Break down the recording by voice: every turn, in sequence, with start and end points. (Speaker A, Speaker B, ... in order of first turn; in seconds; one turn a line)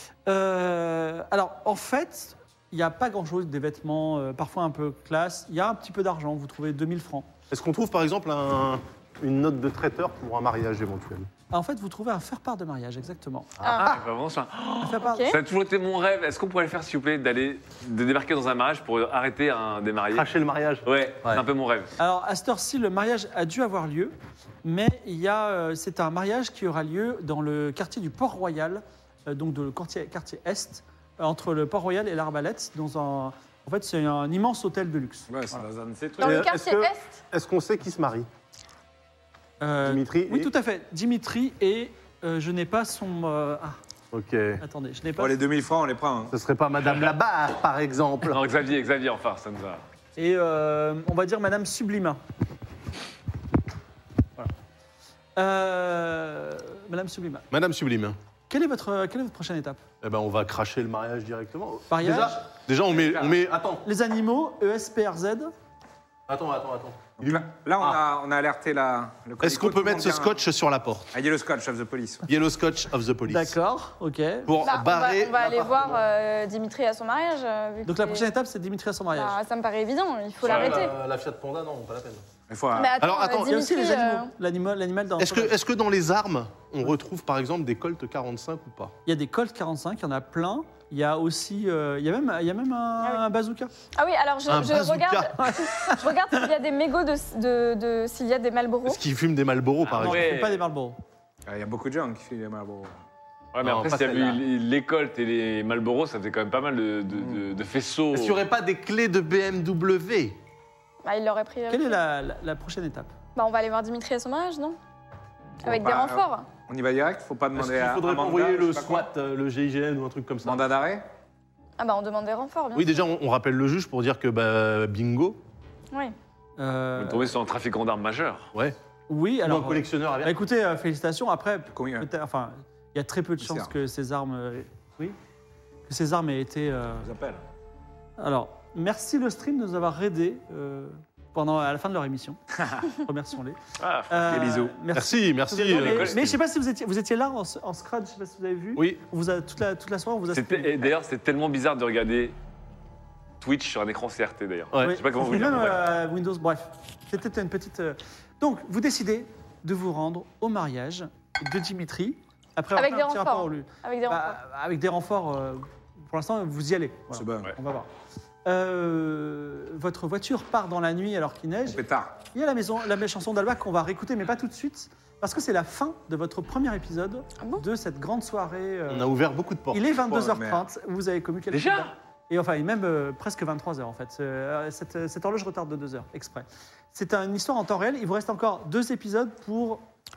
Speaker A: 0.2-7.3
Speaker B: 7.5-11.3
Speaker A: 11.5-13.5
Speaker B: 13.6-14.0
Speaker C: 13.6-13.9
Speaker D: 13.8-20.2
Speaker A: 14.8-15.3
Speaker C: 15.0-15.4
Speaker B: 20.1-21.4
Speaker D: 20.8-21.9
Speaker A: 22.0-35.6
Speaker E: 35.3-36.5
Speaker C: 36.2-37.2
Speaker B: 36.2-38.3
Speaker A: 39.6-43.8
Speaker B: 39.8-40.5
Speaker B: 44.1-44.6
Speaker A: 44.6-45.4
Speaker E: 45.2-46.3
Speaker B: 46.3-48.4
Speaker D: 48.2-49.8
Speaker A: 50.2-52.2
Speaker A: 55.4-57.4
Speaker B: 57.5-58.2
Speaker A: 58.5-59.8
Speaker B: 60.0-63.8
Speaker A: 61.9-62.4
Speaker E: 62.9-63.4
Speaker A: 63.8-65.5
Speaker B: 66.3-68.0
Speaker E: 67.2-70.4
Speaker B: 69.4-71.1
Speaker E: 71.1-72.2
Speaker B: 72.3-73.5
Speaker A: 73.3-74.5
Speaker B: 74.5-76.0
Speaker C: 74.6-78.2
Speaker A: 77.8-79.3
Speaker C: 79.1-80.9
Speaker B: 80.4-82.2
Speaker E: 80.4-80.8
Speaker E: 82.5-83.0
Speaker C: 82.7-84.3
Speaker B: 83.0-83.6
Speaker A: 83.4-85.5
Speaker B: 85.2-88.9
Speaker A: 89.0-93.7
Speaker C: 94.0-99.0
Speaker B: 94.5-95.4
Speaker A: 95.4-96.1
Speaker B: 98.8-100.3
Speaker D: 99.9-100.6
Speaker A: 100.0-101.0
Speaker E: 101.5-103.0
Speaker D: 103.5-108.4
Speaker B: 103.6-104.4
Speaker B: 108.1-110.4
Speaker C: 111.0-112.0
Speaker A: 111.7-113.1
Speaker C: 113.3-114.8
Speaker C: 115.6-116.5
Speaker E: 115.6-119.1
Speaker B: 117.5-120.6
Speaker E: 120.4-121.0
Speaker C: 121.8-122.9
Speaker B: 122.7-125.4
Speaker A: 126.6-127.3
Speaker D: 127.0-128.5
Speaker A: 129.1-135.2
Speaker B: 129.4-130.3
Speaker E: 131.7-132.1
Speaker E: 133.4-133.7
Speaker A: 135.9-137.1
Speaker E: 137.0-137.4
Speaker A: 138.2-150.9
Speaker D: 143.8-144.5
Speaker E: 144.3-144.7
Speaker B: 144.9-146.3
Speaker D: 145.7-146.3
Speaker B: 148.8-149.0
Speaker D: 150.3-152.3
Speaker D: 153.4-155.9
Speaker A: 154.8-167.9
Speaker C: 162.7-164.3
Speaker E: 167.1-167.5
Speaker A: 168.4-171.8
Speaker E: 171.7-172.2
Speaker A: 172.3-179.1
Speaker B: 178.9-179.8
Speaker A: 179.7-189.8
Speaker E: 180.1-180.6
Speaker D: 181.5-181.9